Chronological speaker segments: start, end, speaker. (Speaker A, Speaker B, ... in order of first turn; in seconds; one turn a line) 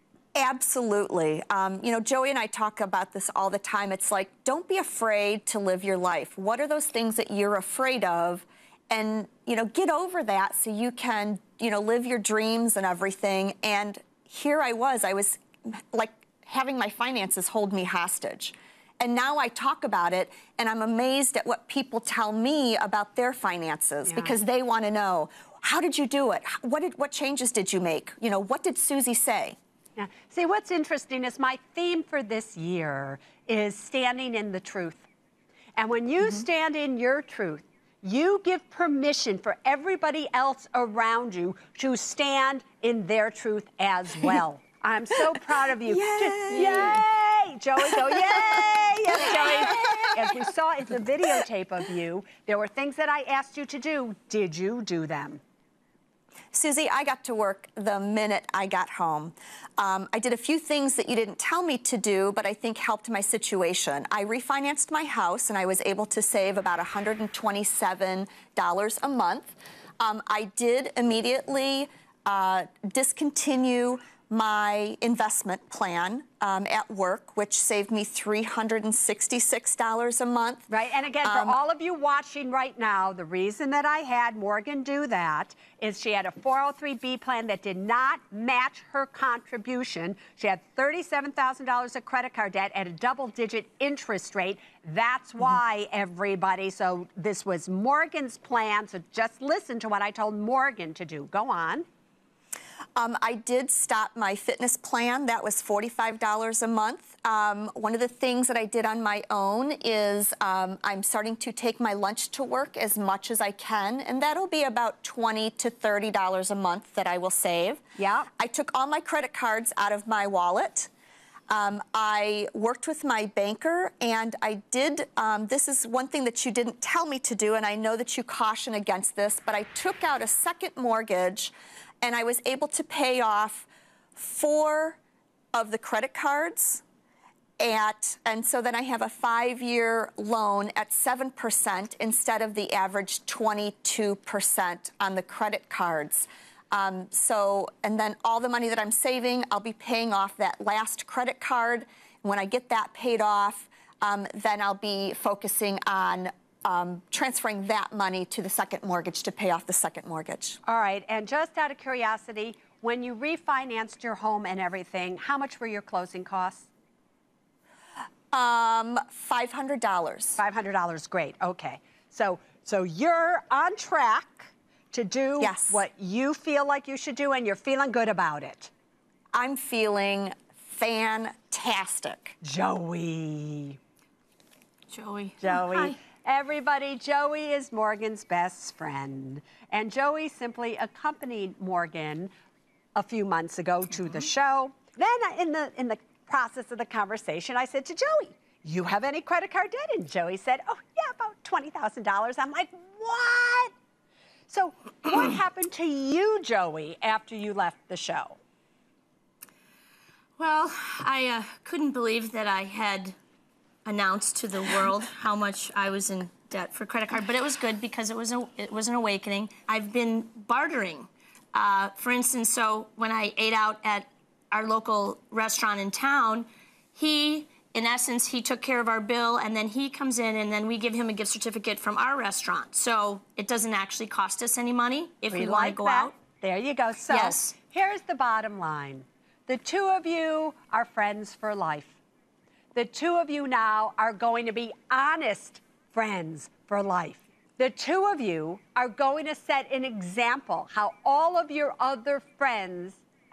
Speaker A: 0.3-29.6
Speaker B: 24.1-24.4
Speaker B: 30.0-35.0
Speaker B: 35.8-55.4
Speaker A: 45.9-47.0
Speaker A: 49.1-50.1
Speaker A: 56.5-80.7
Speaker B: 80.7-101.9
Speaker A: 81.2-81.6
Speaker A: 103.0-117.8
Speaker B: 118.0-118.3
Speaker A: 118.4-120.9
Speaker A: 121.5-135.0
Speaker A: 135.5-136.8
Speaker A: 137.6-160.6
Speaker B: 160.7-166.7
Speaker A: 168.3-170.4
Speaker B: 170.4-178.7
Speaker A: 175.4-175.8
Speaker A: 179.3-182.4
Speaker B: 182.4-183.8
Speaker C: 184.9-186.0
Speaker B: 185.4-192.3
Speaker B: 193.0-203.7
Speaker B: 204.5-208.4
Speaker C: 210.4-213.2
Speaker C: 213.8-236.2
Speaker B: 235.3-242.0
Speaker C: 237.1-237.6
Speaker B: 242.8-253.0